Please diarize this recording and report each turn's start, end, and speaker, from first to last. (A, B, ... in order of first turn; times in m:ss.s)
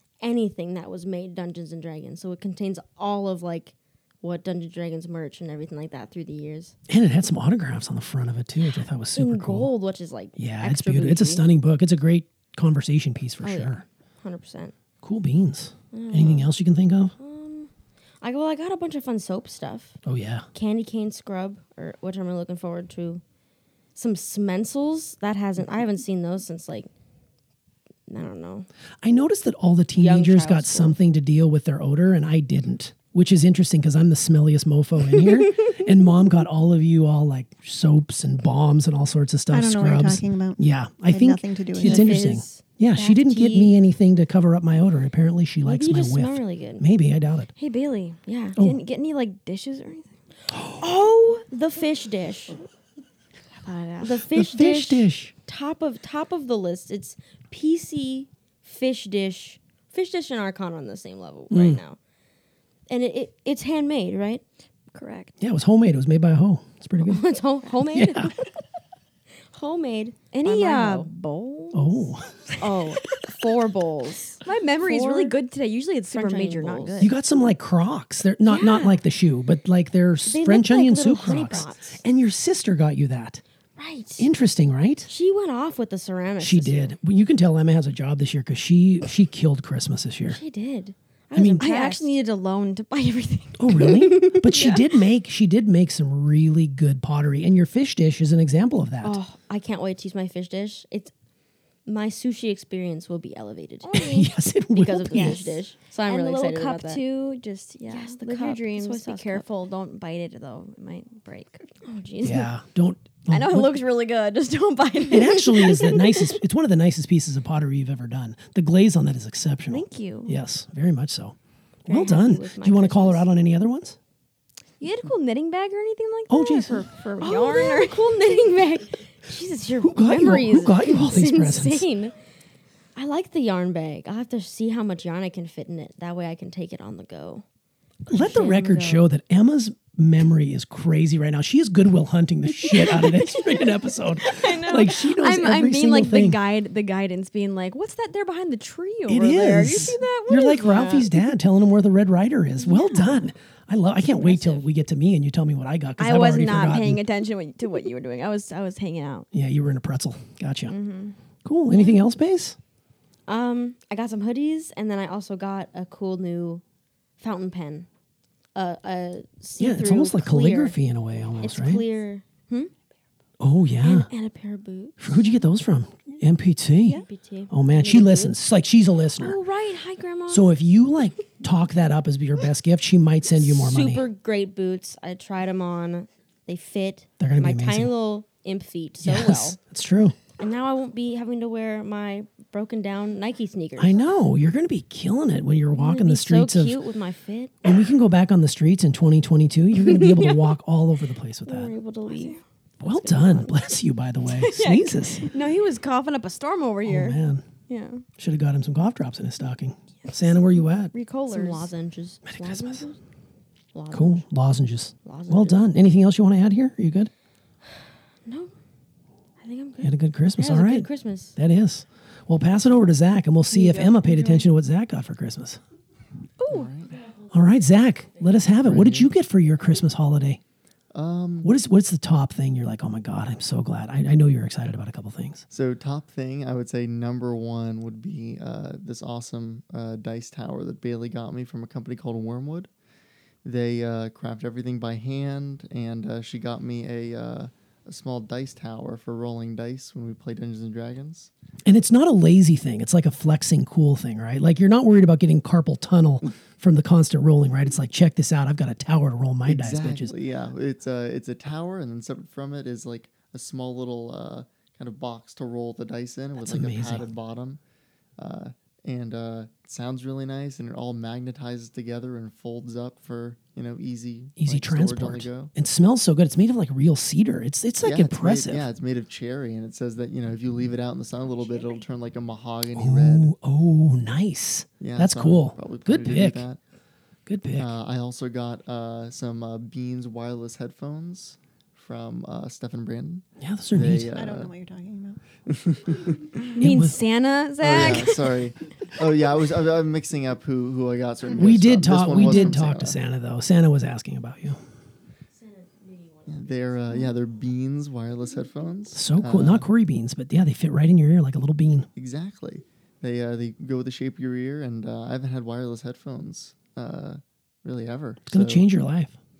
0:00.2-0:06.8 A
0:06.9-0:09.7 B
0:09.1-0:11.5 A
0:10.4-0:13.8 B
0:13.4-0:14.7 A
0:15.0-0:17.1 B
0:15.9-0:16.5 A
0:17.2-0:20.0 A
0:20.0-0:20.5 B
0:20.5-0:23.2 A
0:23.9-0:26.9 A
0:28.1-0:28.7 A
0:29.0-0:47.5 B
0:30.0-0:31.0 A
0:39.5-0:42.1 C
0:41.8-0:43.7 A
0:45.6-0:46.8 A
0:47.6-0:50.2 D
0:48.3-0:48.6 A
0:50.5-0:50.8 B
0:50.8-0:52.6 A
0:53.6-0:54.2 D
0:54.0-1:02.0 A
0:54.3-0:55.3 B
1:01.5-1:01.8 B
1:02.9-1:04.4 A
1:04.9-1:05.3 D
1:05.4-1:07.2 B
1:07.0-1:08.4 A
1:07.9-1:08.3 B
1:09.5-1:11.1 A
1:10.3-1:12.0 D
1:11.7-1:12.4 B
1:12.6-1:15.4 A
1:12.6-1:13.4 D
1:14.4-1:17.1 D
1:16.1-1:17.1 A
1:17.0-1:23.4 B
1:18.5-1:19.0 D
1:20.3-1:22.0 A
1:23.8-1:24.3 A
1:24.2-1:25.1 B
1:25.1-1:26.9 A
1:26.4-1:30.4 B
1:30.3-1:32.2 A
1:31.3-1:31.7 B
1:31.6-1:34.9 D
1:33.6-1:39.2 B
1:39.0-1:41.1 A
1:41.8-1:44.2 A
1:43.8-1:44.3 D
1:43.9-1:45.5 B
1:44.7-1:47.0 A
1:45.1-1:51.6 D
1:47.8-1:49.5 A
1:51.8-1:52.5 A
1:52.2-1:53.8 B
1:53.3-1:53.9 A
1:53.6-1:55.2 D
1:54.8-1:55.8 A
1:55.1-2:04.0 B
1:59.7-2:00.4 D
2:01.9-2:03.2 A
2:04.8-2:08.4 D
2:06.3-2:06.9 B
2:07.1-2:12.1 A
2:09.8-2:11.8 B
2:12.9-2:17.4 A
2:18.1-2:26.4 B
2:18.1-2:19.0 A
2:22.6-2:23.6 D
2:24.2-2:31.2 D
2:29.1-2:37.0 B
2:32.6-2:33.2 D
2:34.2-2:34.6 A
2:36.0-2:39.3 D
2:39.3-2:40.7 B
2:40.7-2:41.1 D
2:41.4-2:42.6 B
2:43.3-2:46.6 A
2:47.2-2:47.9 A
2:48.5-2:50.8 A
2:49.6-2:51.8 B
2:51.4-2:52.7 A
2:53.4-2:54.1 B
2:53.8-2:55.2 A
2:55.0-2:59.4 B
2:56.9-2:58.4 A
2:59.2-3:00.5 A
3:00.3-3:04.0 B
3:03.4-3:09.6 A
3:07.2-3:07.9 B
3:09.0-3:10.2 B
3:10.4-3:14.0 A
3:13.8-3:16.8 B
3:15.8-3:17.6 A
3:17.6-3:21.7 B
3:19.8-3:20.5 A
3:21.4-3:23.6 A
3:22.0-3:22.4 D
3:22.8-3:25.2 B
3:24.4-3:26.9 D
3:25.2-3:25.7 A
3:26.8-3:27.2 A
3:26.8-3:27.4 B
3:27.7-3:28.0 D
3:28.2-3:30.9 B
3:30.9-3:31.7 D
3:31.3-3:33.0 A
3:32.2-3:32.8 B
3:33.7-3:34.2 A
3:33.9-3:37.1 B
3:35.0-3:35.6 A
3:38.2-3:38.5 A
3:39.4-3:41.3 A
3:39.8-3:45.6 B
3:43.5-3:44.4 A
3:46.4-3:46.7 D
3:46.5-3:47.0 E
3:47.3-3:50.4 B
3:48.6-3:49.1 E
3:50.9-3:51.5 E
3:51.4-3:55.4 B
3:55.5-4:02.7 E
4:03.4-4:11.3 E
4:11.6-4:20.1 B
4:19.4-4:27.6 E
4:26.4-4:27.1 B
4:28.2-4:35.5 E
4:34.4-4:38.7 B
4:37.8-4:43.3 E
4:42.8-4:46.4 B
4:44.8-4:46.6 E
4:47.2-4:47.7 B
4:47.6-4:54.5 E
4:53.4-4:54.1 B
4:54.1-4:55.2 C
4:55.5-4:56.2 E
4:56.5-4:58.4 D
4:56.6-4:57.0 B
4:57.6-5:03.0 E
5:01.3-5:04.6 B
5:05.3-5:07.1 A
5:06.3-5:09.6 E
5:08.9-5:11.9 B
5:11.9-5:18.6 E
5:18.3-5:19.1 B